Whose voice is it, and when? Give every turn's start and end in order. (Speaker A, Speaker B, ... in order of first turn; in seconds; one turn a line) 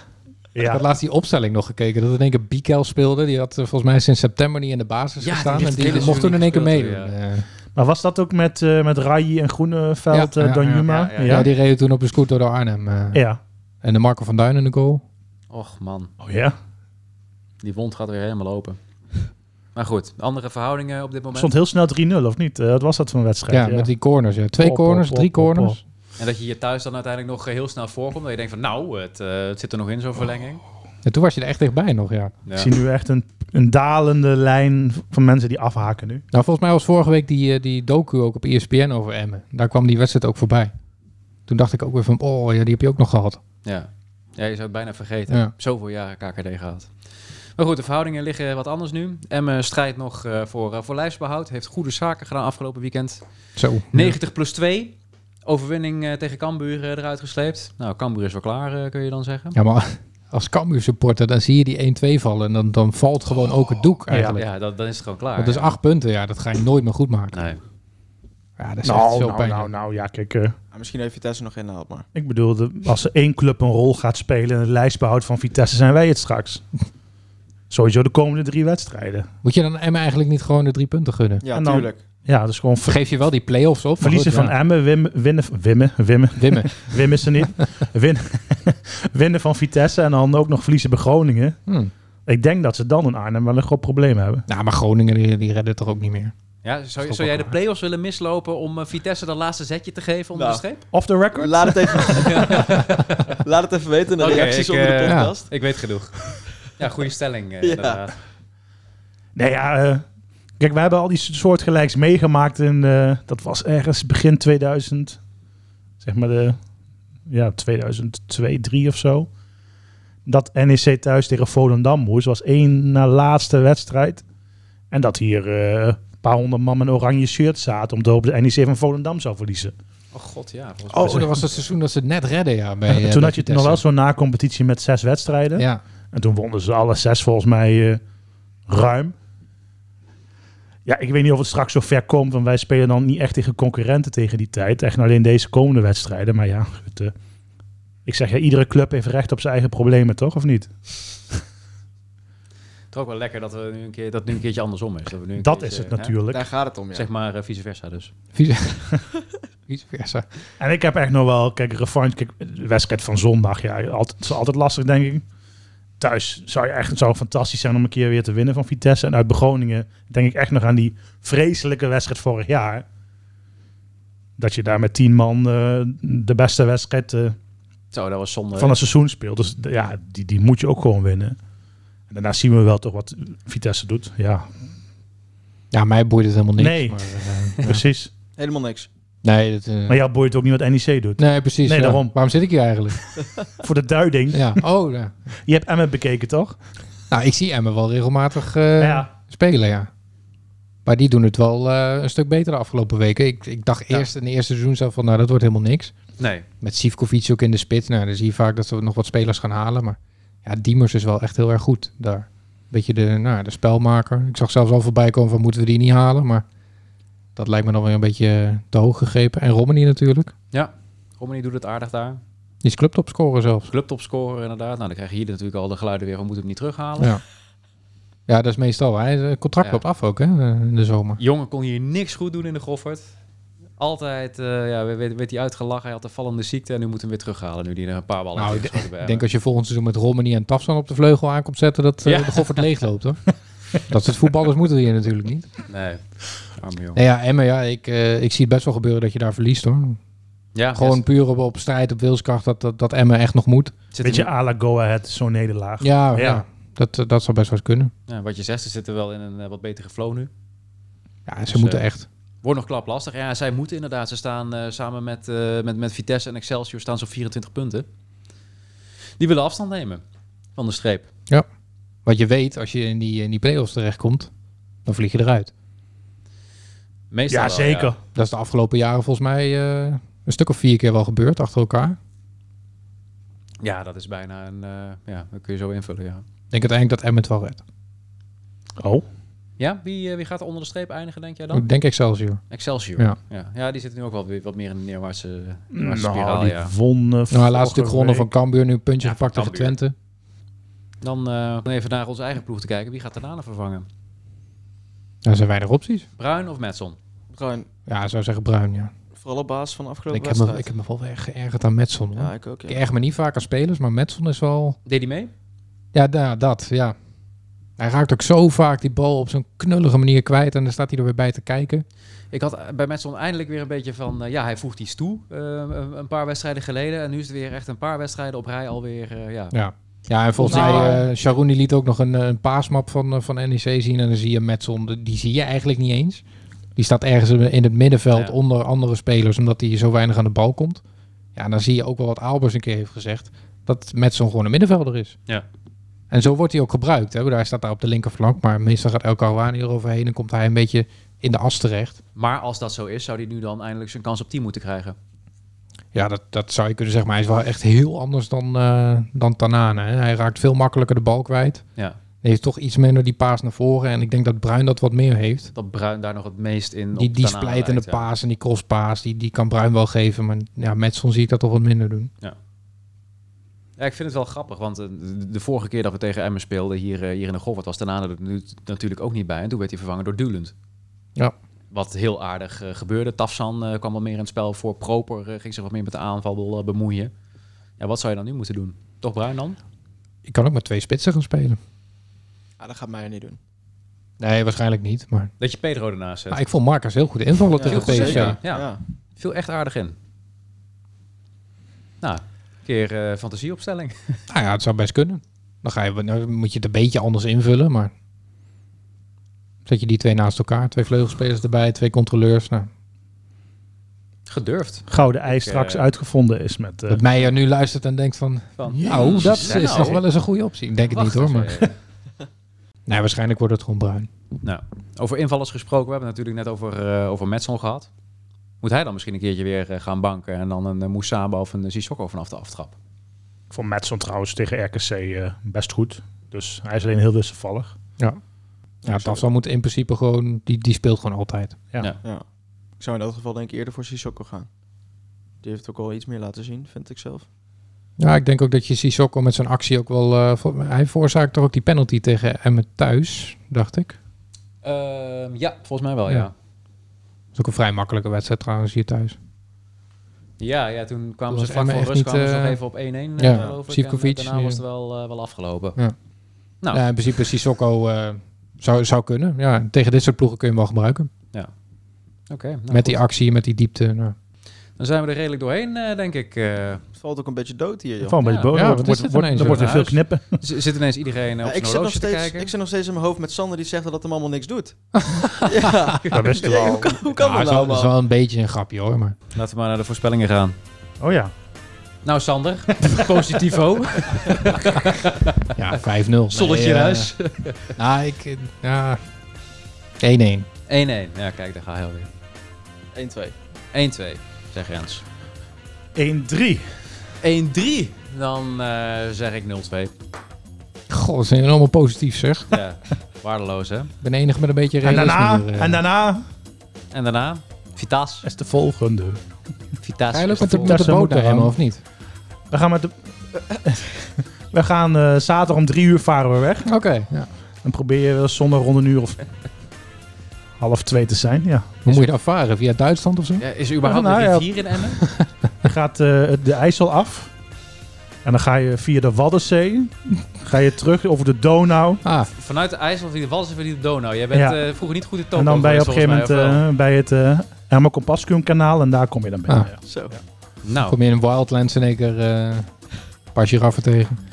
Speaker A: 0.5-0.8
Speaker B: 0.7-7.5
Speaker C: 5.2-7.2
Speaker A: 7.8-11.5
Speaker B: 10.1-13.2
Speaker C: 10.6-11.5
Speaker A: 13.1-13.4
Speaker B: 13.8-15.0
Speaker C: 15.5-16.1
Speaker A: 16.2-16.5
Speaker C: 17.6-18.8
Speaker C: 19.8-21.5
Speaker A: 21.3-23.9
Speaker B: 23.5-25.8
Speaker A: 24.6-25.8
Speaker C: 26.2-30.6
Speaker B: 31.0-32.4
Speaker A: 32.6-36.2
Speaker B: 36.3-40.7
Speaker B: 41.5-43.4
Speaker C: 43.6-46.9
Speaker C: 47.6-53.2
Speaker B: 53.6-53.9
Speaker C: 53.9-59.6
Speaker B: 59.5-64.5
Speaker A: 64.1-64.4
Speaker C: 64.3-65.8
Speaker B: 65.4-67.4
Speaker C: 67.3-67.6
Speaker B: 68.6-69.7
Speaker A: 68.8-70.5
Speaker D: 70.7-72.1
Speaker A: 72.1-76.6
Speaker A: 77.7-79.3
Speaker B: 79.4-81.5
Speaker D: 81.4-82.0
Speaker A: 81.5-83.0
Speaker B: 82.8-84.5
Speaker A: 84.0-91.6
Speaker B: 86.4-86.9
Speaker B: 91.7-91.9
Speaker A: 92.3-94.5
Speaker B: 94.5-96.3
Speaker C: 96.6-100.8
Speaker B: 97.0-97.5
Speaker D: 100.3-100.6
Speaker A: 100.9-102.5
Speaker D: 101.3-102.8
Speaker C: 102.2-103.4
Speaker D: 103.4-105.5
Speaker C: 104.2-106.2
Speaker B: 105.1-105.3
Speaker C: 106.8-108.2
Speaker D: 107.6-108.0
Speaker A: 109.4-110.0
Speaker A: 110.6-115.2
Speaker A: 116.0-116.6
Speaker A: 117.3-119.3
Speaker A: 120.3-124.2
Speaker A: 124.9-129.7
Speaker C: 130.1-131.6
Speaker B: 130.9-133.8
Speaker A: 131.0-131.3
Speaker A: 132.9-138.0
Speaker B: 135.6-135.8
Speaker A: 138.7-139.1
Speaker A: 140.9-147.1
Speaker A: 148.1-150.7
Speaker C: 152.9-156.2
Speaker A: 155.4-156.5
Speaker D: 156.3-157.1
Speaker C: 156.9-158.1
Speaker B: 158.3-159.0
Speaker B: 159.7-160.3
Speaker A: 160.6-165.2
Speaker A: 166.0-172.8
Speaker A: 174.4-177.4
Speaker C: 177.9-178.8
Speaker A: 178.6-181.4
Speaker A: 182.1-184.5
Speaker B: 185.7-187.8
Speaker A: 186.6-187.0
Speaker A: 187.5-188.1
Speaker D: 188.4-188.9
Speaker B: 189.2-190.0
Speaker A: 189.9-192.1
Speaker B: 191.2-193.0
Speaker A: 193.6-194.6
Speaker B: 194.3-195.2
Speaker A: 195.5-196.6
Speaker B: 197.1-199.9
Speaker A: 198.8-199.1
Speaker B: 200.8-205.9
Speaker C: 206.2-206.5
Speaker B: 206.6-216.4
Speaker B: 217.4-220.3
Speaker C: 220.5-222.2
Speaker B: 222.6-223.7
Speaker C: 223.7-227.1
Speaker B: 228.3-231.2
Speaker C: 231.2-233.1
Speaker C: 233.8-239.2
Speaker B: 238.4-243.2
Speaker C: 242.0-242.7
Speaker B: 243.9-245.5
Speaker C: 245.7-247.0
Speaker B: 247.0-250.0
Speaker C: 250.6-251.0
Speaker B: 250.8-253.7
Speaker C: 253.9-254.3
Speaker A: 254.0-256.4
Speaker B: 255.8-257.9
Speaker C: 258.1-260.3
Speaker B: 261.3-262.1
Speaker C: 261.5-261.9
Speaker C: 262.4-267.9
Speaker C: 269.2-270.0
Speaker C: 270.6-271.1
Speaker B: 272.1-274.3
Speaker B: 274.9-275.5
Speaker C: 277.1-277.9
Speaker A: 277.3-278.0
Speaker B: 278.1-282.0
Speaker C: 283.6-286.2
Speaker B: 286.5-287.6
Speaker A: 288.8-289.1
Speaker C: 289.6-291.6
Speaker B: 291.5-292.4
Speaker C: 292.5-296.7
Speaker A: 295.7-298.3
Speaker B: 297.3-299.9
Speaker C: 299.0-299.8
Speaker C: 301.0-303.9
Speaker B: 305.2-306.1
Speaker C: 306.2-307.0
Speaker D: 307.3-307.7
Speaker B: 307.9-308.9
Speaker D: 309.2-310.7
Speaker B: 310.1-314.8
Speaker D: 312.1-312.8
Speaker C: 314.9-315.3
Speaker B: 315.9-317.0
Speaker B: 317.8-321.9
Speaker C: 322.3-329.6
Speaker B: 329.5-336.2
Speaker C: 330.4-331.0
Speaker A: 330.4-331.0
Speaker B: 336.8-340.8
Speaker B: 341.4-345.2
Speaker B: 346.1-352.0
Speaker C: 352.2-355.0
Speaker B: 355.9-361.6
Speaker B: 362.2-365.5
Speaker C: 365.6-368.1
Speaker B: 366.9-372.1
Speaker C: 373.8-380.5
Speaker C: 381.7-387.1
Speaker C: 387.8-389.6
Speaker B: 390.2-391.6
Speaker D: 392.6-393.4
Speaker B: 394.2-395.3
Speaker C: 395.4-396.4
Speaker B: 396.3-398.4
Speaker D: 397.5-398.8
Speaker C: 397.6-400.0
Speaker C: 402.0-404.2
Speaker B: 404.3-407.9
Speaker B: 409.7-412.7
Speaker C: 414.3-415.9
Speaker A: 414.9-417.0
Speaker B: 416.9-421.7
Speaker C: 418.6-420.0
Speaker A: 418.8-419.8
Speaker C: 420.9-421.7
Speaker B: 422.9-424.1
Speaker C: 424.4-427.9
Speaker C: 428.6-432.8
Speaker A: 433.5-437.7
Speaker D: 438.8-439.2
Speaker B: 438.9-441.6
Speaker D: 442.8-444.5
Speaker D: 445.4-447.3
Speaker B: 448.0-453.9
Speaker C: 454.6-456.3
Speaker B: 457.4-459.2
Speaker C: 460.4-465.8
Speaker B: 461.3-462.6
Speaker B: 463.2-464.6
Speaker D: 463.3-463.6
Speaker B: 466.7-471.1
Speaker C: 472.3-473.0
Speaker B: 472.7-474.2
Speaker C: 474.8-476.8
Speaker D: 477.0-478.2
Speaker A: 478.0-480.4
Speaker C: 478.2-482.5
Speaker B: 478.5-479.7
Speaker D: 481.4-487.9
Speaker B: 485.0-485.9
Speaker A: 486.1-487.0
Speaker B: 487.1-489.2
Speaker C: 489.4-490.6
Speaker A: 491.0-491.3
Speaker C: 492.0-495.5
Speaker B: 495.6-497.1
Speaker C: 496.3-497.7
Speaker B: 497.7-499.0
Speaker B: 500.0-500.5
Speaker C: 500.7-502.1
Speaker D: 502.9-503.4
Speaker C: 503.7-505.0
Speaker A: 506.0-506.7
Speaker C: 507.2-509.9
Speaker B: 510.9-512.6
Speaker C: 512.5-513.9
Speaker B: 514.0-515.8
Speaker A: 514.8-516.3
Speaker C: 516.9-518.3
Speaker A: 518.2-519.2
Speaker C: 519.8-520.9
Speaker B: 520.1-521.8
Speaker A: 520.4-521.5
Speaker A: 522.5-526.7
Speaker B: 526.6-527.3
Speaker A: 527.6-529.2
Speaker A: 530.6-531.8
Speaker B: 531.9-533.4
Speaker C: 533.4-535.0
Speaker A: 533.8-534.5
Speaker B: 535.0-535.3
Speaker A: 535.6-537.3
Speaker A: 538.2-542.0
Speaker B: 542.0-542.3
Speaker C: 542.3-546.6
Speaker A: 544.3-544.6
Speaker A: 545.3-549.8
Speaker D: 549.9-550.1
Speaker C: 550.6-551.0
Speaker B: 550.9-552.7
Speaker B: 553.4-554.2